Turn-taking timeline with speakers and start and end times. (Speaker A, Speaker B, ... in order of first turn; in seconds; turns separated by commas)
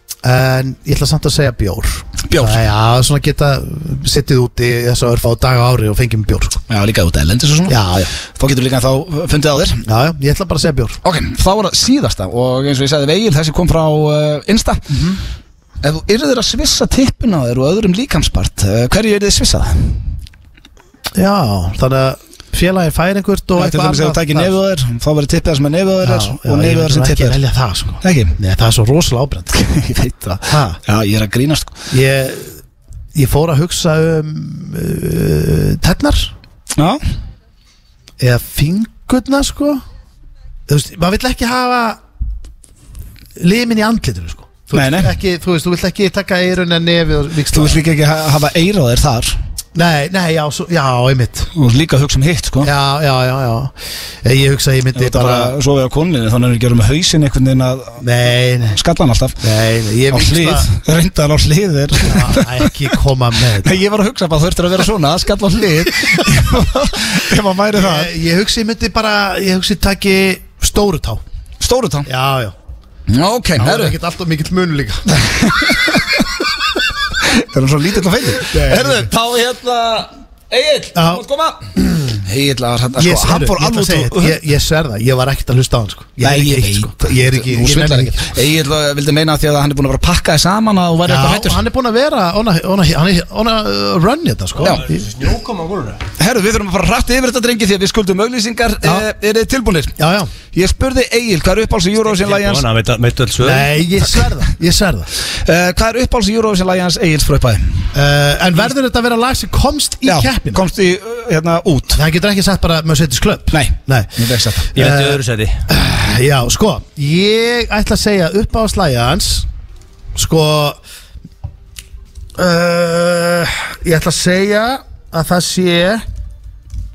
Speaker A: 0.2-6.6, Speaker B: 2.2-2.6, Speaker B: 6.7-9.8, Speaker A: 7.7-8.1, Speaker A: 9.8-11.0, Speaker B: 11.0-15.0, Speaker A: 14.9-15.2, Speaker B: 15.8-20.0, Speaker A: 21.1-24.5, Speaker B: 23.6-27.4, Speaker A: 26.0-29.5, Speaker B: 28.0-28.4, Speaker B: 29.5-31.8, Speaker A: 30.5-30.8, Speaker A: 31.9-32.6, Speaker A: 33.1-36.3, Speaker A: 38.2-39.8, Speaker A: 40.7-42.0, Speaker A: 43.4-47.8, Speaker B: 44.7-45.1, Speaker B: 47.5-49.4, Speaker A: 49.7-51.5, Speaker B: 51.5-52.7, Speaker A: 52.6-55.5, Speaker B: 54.9-58.0, Speaker A: 58.0-58.8, Speaker B: 58.7-59.4, Speaker A: 59.4-60.7, Speaker B: 60.1-62.9, Speaker A: 62.0-63.8, Speaker B: 63.6-68.1, Speaker A: 66.0-66.6, Speaker A: 67.7-71.2, Speaker B: 71.6-72.1, Speaker A: 72.0-72.5, Speaker B: 73.1-74.0, Speaker A: 73.6-75.2, Speaker B: 75.2-76.3, Speaker B: 77.2-84.4, Speaker A: 78.5-79.1, Speaker A: 80.9-81.2, Speaker A: 81.8-82.2, Speaker A: 83.0-88.3, Speaker B: 86.2-91.6, Speaker A: 91.0-95.0, Speaker C: 94.6-96.0, Speaker B: 96.2-99.9, Speaker A: 100.0-100.3, Speaker B: 100.5-102.6, Speaker C: 102.0-103.7, Speaker A: 103.4-105.1, Speaker B: 105.3-107.8, Speaker A: 107.9-110.6, Speaker B: 110.0-112.0, Speaker A: 111.9-114.1, Speaker B: 113.5-114.7, Speaker A: 114.7-119.5, Speaker C: 114.7-115.6, Speaker A: 120.1-120.8, Speaker A: 122.4-126.0